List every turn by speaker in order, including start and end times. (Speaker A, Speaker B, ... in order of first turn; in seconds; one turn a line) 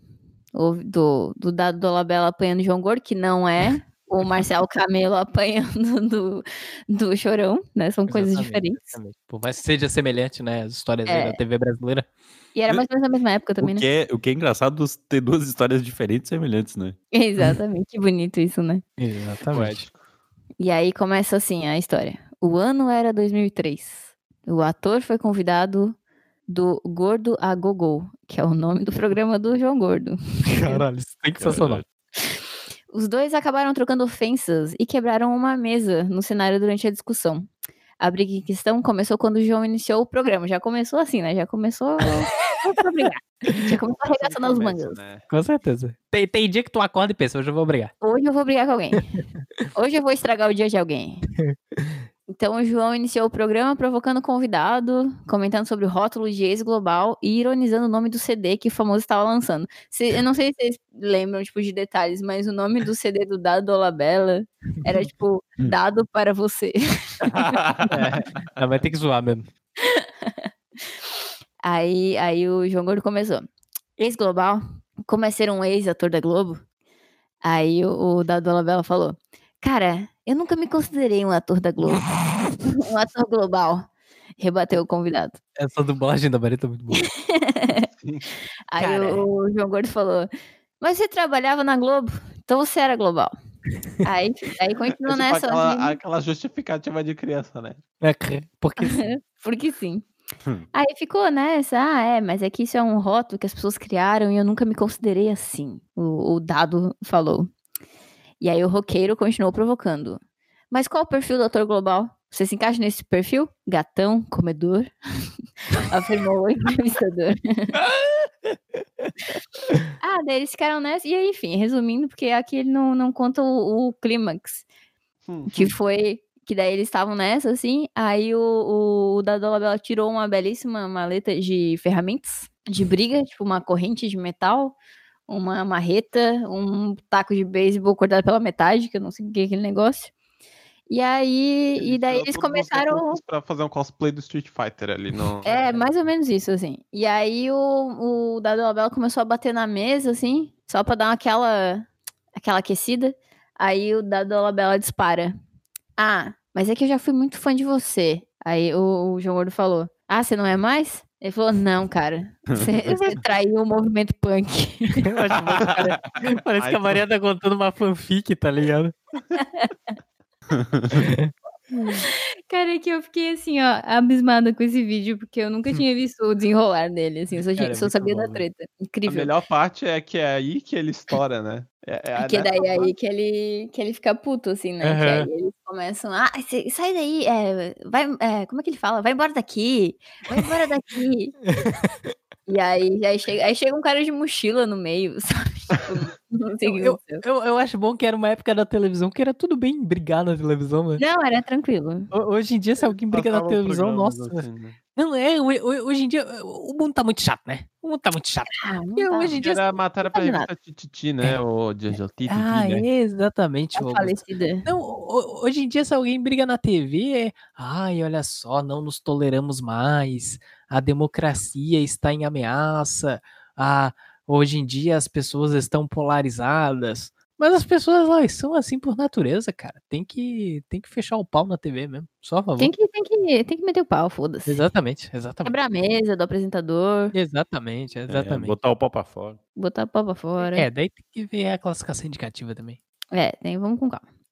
Speaker A: 0.5-9.0
Speaker B: 8.1-12.1
Speaker A: 11.1-11.4
Speaker A: 12.6-13.9
Speaker C: 13.6-17.0
Speaker A: 17.1-18.8
Speaker B: 19.0-19.9
Speaker D: 19.5-20.0
Speaker A: 20.6-26.0
Speaker A: 26.5-30.8
Speaker B: 30.5-31.8
Speaker C: 31.4-31.9
Speaker A: 32.9-37.5
Speaker A: 38.0-45.0
Speaker D: 44.0-45.3
Speaker B: 45.3-47.9
Speaker A: 48.0-49.1
Speaker A: 49.7-51.3
Speaker B: 51.4-52.0
Speaker A: 52.3-67.6
Speaker C: 67.2-68.0
Speaker B: 67.9-69.5
Speaker A: 69.8-70.5
Speaker A: 71.6-73.5
Speaker A: 74.0-76.6
Speaker A: 77.4-83.9
Speaker A: 84.4-85.4
Speaker B: 85.6-87.1
Speaker A: 86.9-87.9
Speaker D: 87.8-88.2
Speaker A: 88.7-90.3
Speaker B: 88.8-89.3
Speaker A: 90.8-93.3
Speaker A: 94.0-96.0
Speaker D: 95.0-97.8
Speaker B: 98.0-99.0
Speaker A: 98.8-100.1
Speaker A: 100.7-107.5
Speaker A: 108.4-110.2
Speaker A: 110.7-114.9
Speaker A: 115.7-117.8
Speaker B: 117.9-118.3
Speaker A: 120.0-124.7
Speaker D: 125.3-125.7
Speaker A: 125.5-134.8
Speaker A: 135.3-140.1
Speaker A: 140.9-143.2
Speaker D: 141.8-145.9
Speaker A: 145.4-155.3
Speaker A: 156.0-165.2
Speaker C: 162.5-163.2
Speaker B: 165.0-168.9
Speaker D: 166.2-167.0
Speaker A: 169.4-169.7
Speaker C: 170.5-171.1
Speaker B: 170.9-172.0
Speaker A: 171.9-179.3
Speaker B: 177.6-178.4
Speaker D: 179.1-182.9
Speaker A: 182.2-191.4
Speaker B: 184.8-185.3
Speaker B: 191.5-192.1
Speaker A: 192.5-197.2
Speaker B: 196.7-201.0
Speaker A: 201.0-202.1
Speaker B: 202.1-209.7
Speaker D: 203.1-204.8
Speaker A: 208.5-209.5
Speaker D: 209.4-212.9
Speaker A: 210.0-210.5
Speaker B: 212.3-232.7
Speaker A: 213.8-214.7
Speaker A: 232.6-234.6
Speaker B: 234.5-235.5
Speaker A: 235.4-237.1
Speaker B: 237.1-238.6
Speaker C: 238.1-239.4
Speaker A: 239.6-240.7
Speaker B: 240.4-242.8
Speaker A: 243.1-244.0